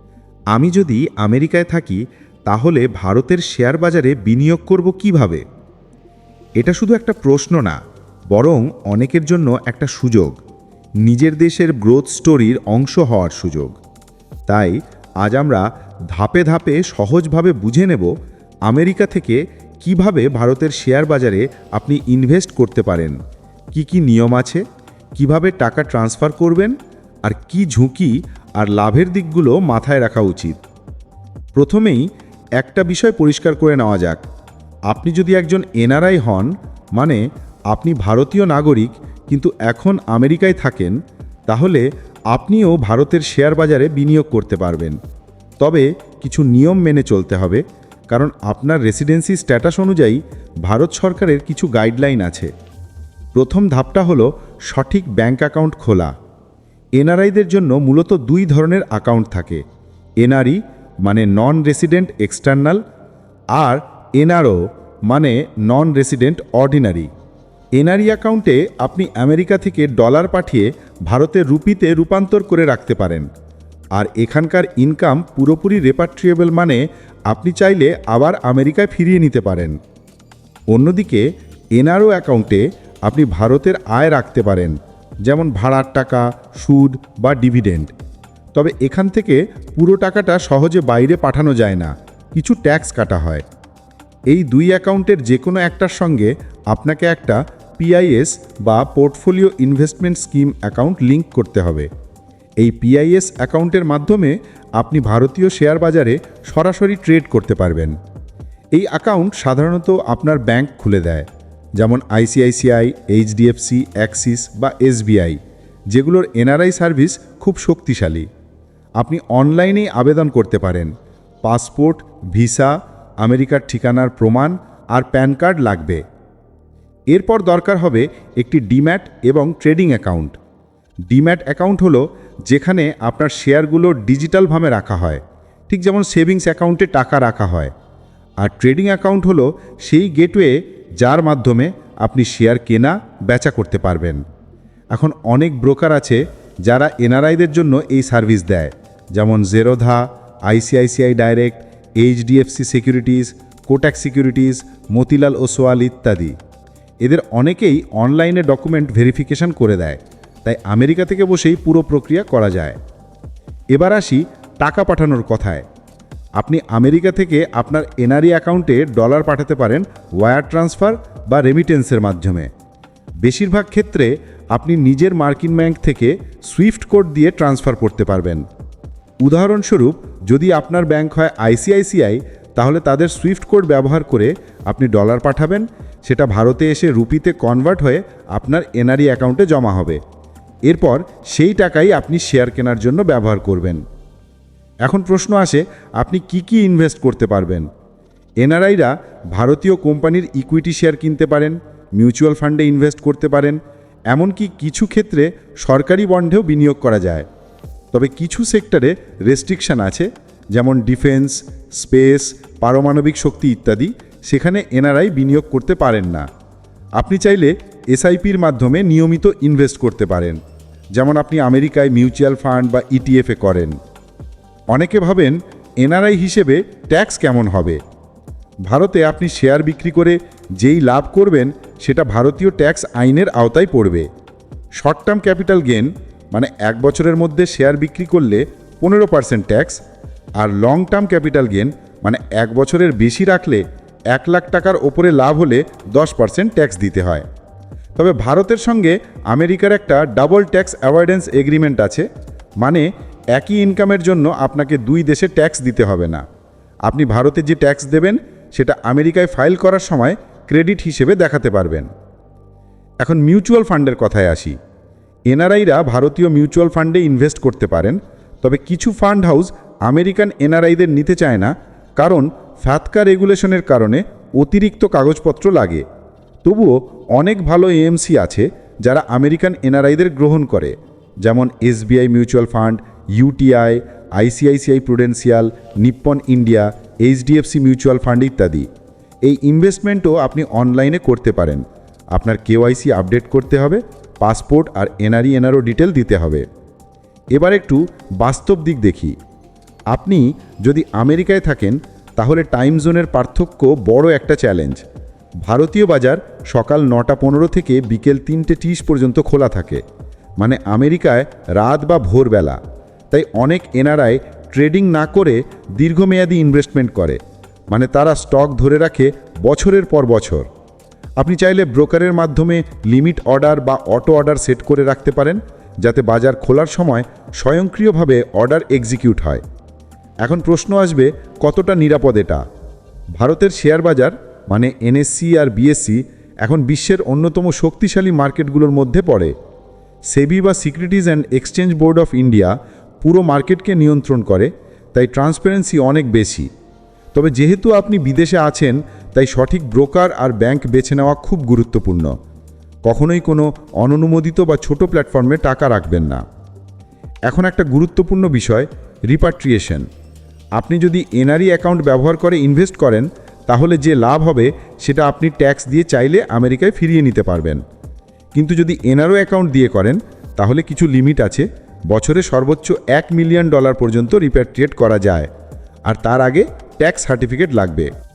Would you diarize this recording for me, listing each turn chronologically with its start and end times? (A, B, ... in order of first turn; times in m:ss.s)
0:00.5-0:05.4 A
0:06.6-0:07.8 A
0:08.3-0:10.4 A
0:11.0-0:13.8 A
0:14.5-0:18.1 A
0:18.7-0:23.2 A
0:23.7-0:24.6 A
0:25.2-0:30.6 A
0:31.6-0:34.2 A
0:34.9-0:45.0 A
0:45.6-0:52.5 A
0:53.4-0:56.1 A
0:57.0-0:59.6 A
1:00.2-1:02.8 A
1:03.5-1:07.1 A
1:07.8-1:13.3 A
1:13.9-1:19.8 A
1:20.7-1:27.9 A
1:28.5-1:33.4 A
1:34.3-1:41.9 A
1:42.6-1:48.0 A
1:48.7-1:55.4 A
1:55.9-1:58.3 A
1:59.0-2:06.0 A
2:07.1-2:10.4 A
2:11.1-2:17.7 A
2:18.4-2:24.2 A
2:24.9-2:36.4 A
2:37.0-2:42.8 A
2:43.7-2:45.7 A
2:46.4-2:52.5 A
2:53.2-2:58.5 A
2:59.2-3:10.0 A
3:10.7-3:13.8 A
3:14.8-3:17.7 A
3:18.4-3:27.3 A
3:27.9-3:36.3 A
3:37.0-3:40.4 A
3:40.9-3:43.8 A
3:44.7-3:47.8 A
3:48.7-3:54.1 A
3:54.8-3:59.8 A
4:00.4-4:07.3 A
4:08.0-4:12.1 A
4:12.6-4:16.2 A
4:16.9-4:21.9 A
4:23.0-4:24.6 A
4:25.3-4:35.8 A
4:36.4-4:48.7 A
4:49.2-4:56.5 A
4:57.3-4:59.2 A
4:59.9-5:04.8 A
5:05.4-5:09.8 A
5:10.4-5:12.6 A
5:13.1-5:17.2 A
5:17.7-5:20.5 A
5:21.2-5:29.4 A
5:30.2-5:32.4 A
5:33.2-5:39.3 A
5:40.1-5:46.5 A
5:47.1-5:52.1 A
5:52.9-5:56.2 A
5:57.3-5:59.9 A
6:00.6-6:07.6 A
6:08.4-6:15.3 A
6:15.9-6:17.9 A